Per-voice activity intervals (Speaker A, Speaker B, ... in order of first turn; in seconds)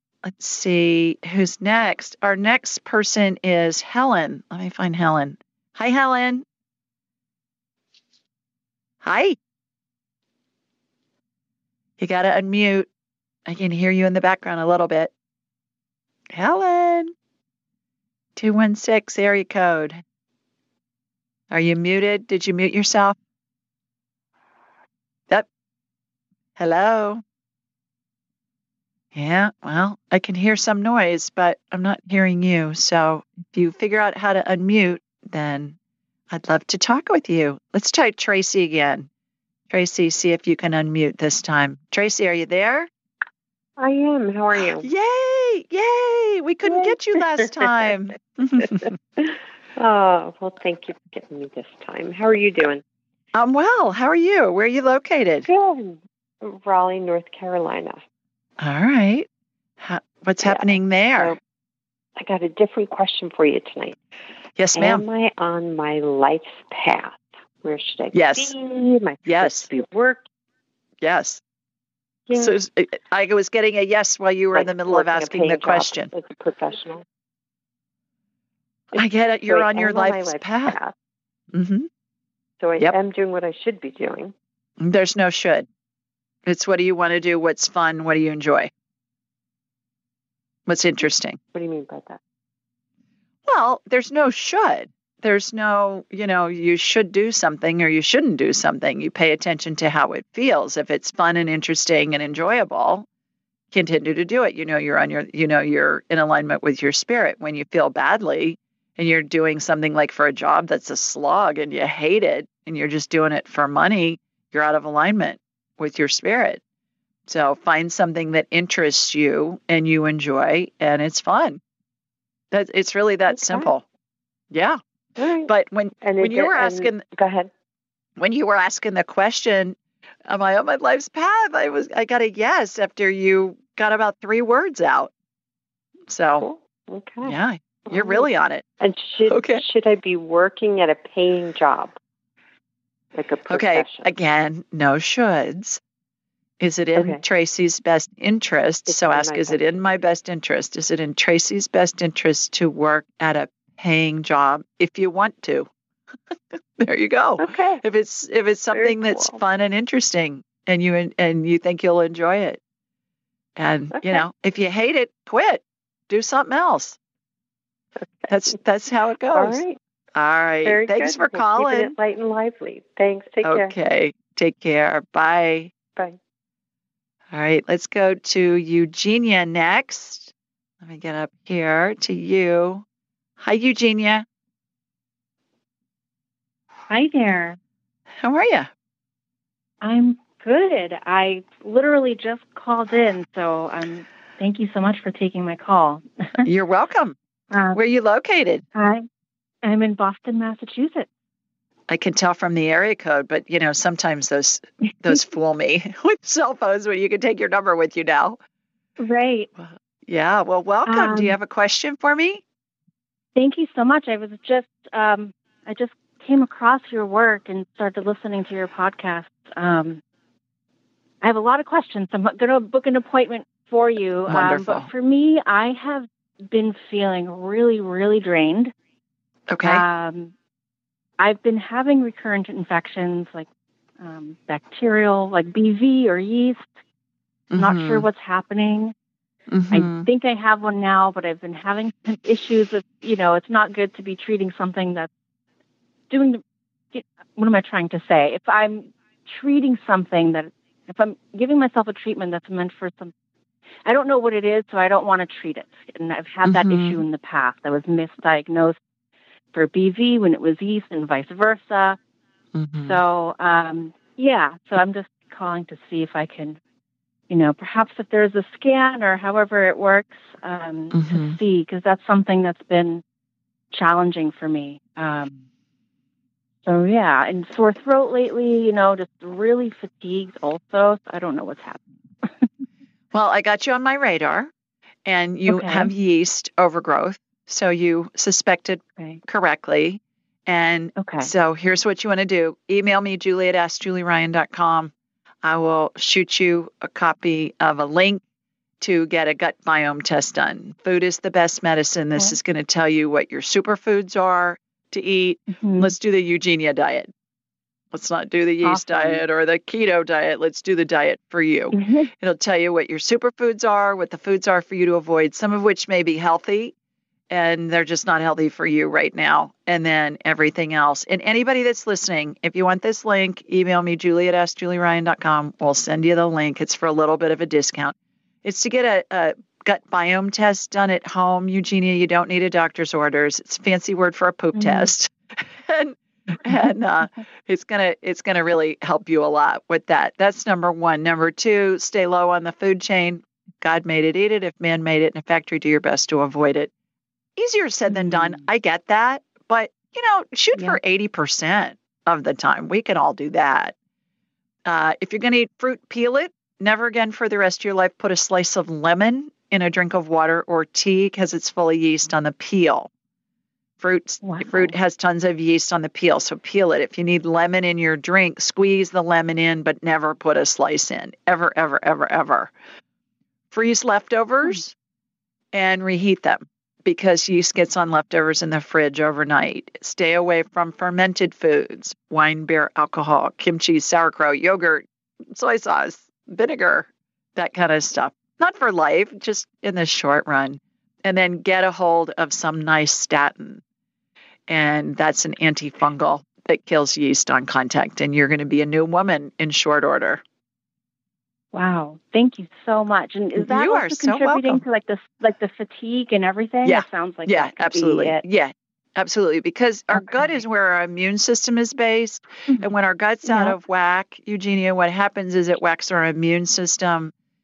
Speaker A: 0.2-6.5, 9.0-9.4, 12.0-12.9, 13.5-15.1, 16.3-17.1, 18.4-20.0, 21.5-23.2, 26.6-27.2, 29.1-35.8, 36.3-39.1, 39.7-42.9, 44.8-48.9, 53.3-55.5, 58.6-59.3, 59.8-61.4, 64.6-65.1, 68.1-68.5, 69.2-69.7, 71.0-71.4, 72.3-76.1, 79.0-80.8, 81.5-81.9, 84.8-85.7, 86.5-88.7, 90.7-91.4, 93.5-103.1, 103.7-116.6, 117.3-121.6, 122.5-123.8, 124.5-124.8, 125.5-127.0, 128.2-129.8, 130.3-135.1, 136.1-136.5, 137.2-138.6, 139.3-139.6, 143.5-145.8, 146.6-155.7, 156.8-162.6, 163.6-167.0, 168.3-169.6, 170.2-171.9, 173.4-175.7, 177.3-182.8, 183.4-184.2, 188.2-188.7, 196.4-197.2, 197.7-198.6, 201.9-208.4, 209.6-212.4, 224.3-224.9, 229.5-229.8, 237.5-238.1, 239.5-240.1, 256.4-257.0, 262.6-263.0, 270.9-271.4, 283.1-284.5, 285.1-294.9, 295.4-298.2, 298.8-307.1, 307.9-316.7, 317.3-346.7, 347.4-353.7, 354.7-362.9, 363.8-372.5, 373.5-374.7, 375.5-393.6, 394.5-400.2, 403.4-404.6, 406.6-417.1
Speaker B: 43.8-44.9, 48.6-52.8, 55.5-58.0, 60.4-61.4, 62.2-64.0, 64.7-70.2, 72.3-72.6, 74.5-77.0, 78.9-81.0, 82.6-84.3, 91.5-92.2, 123.3-123.7, 125.2-125.5, 126.0-127.5, 136.4-138.3, 138.8-142.0, 143.1-144.1, 147.0-147.2, 148.9-149.9, 157.4-157.8, 158.7-159.4, 163.9-164.3, 168.0-168.5, 169.3-169.8, 170.7-173.7
Speaker C: 186.9-187.6, 189.8-196.5, 197.5-197.8, 198.8-199.1, 199.6-201.1, 209.0-209.5, 210.9-211.4, 213.4-220.0, 221.2-228.7, 229.6-230.3, 231.2-233.5, 234.0-236.7, 237.6-238.9, 239.7-245.1, 246.1-253.1, 253.9-258.8, 259.5-262.0, 262.8-266.6, 267.3-273.0, 273.7-275.4, 276.7-282.5, 285.5-285.9, 291.0-291.3, 305.5-305.9, 308.6-309.2, 311.7-312.1, 334.5-334.9, 347.9-348.4, 350.5-350.8, 364.2-364.8, 401.5-408.2, 409.9-410.4, 413.2-413.6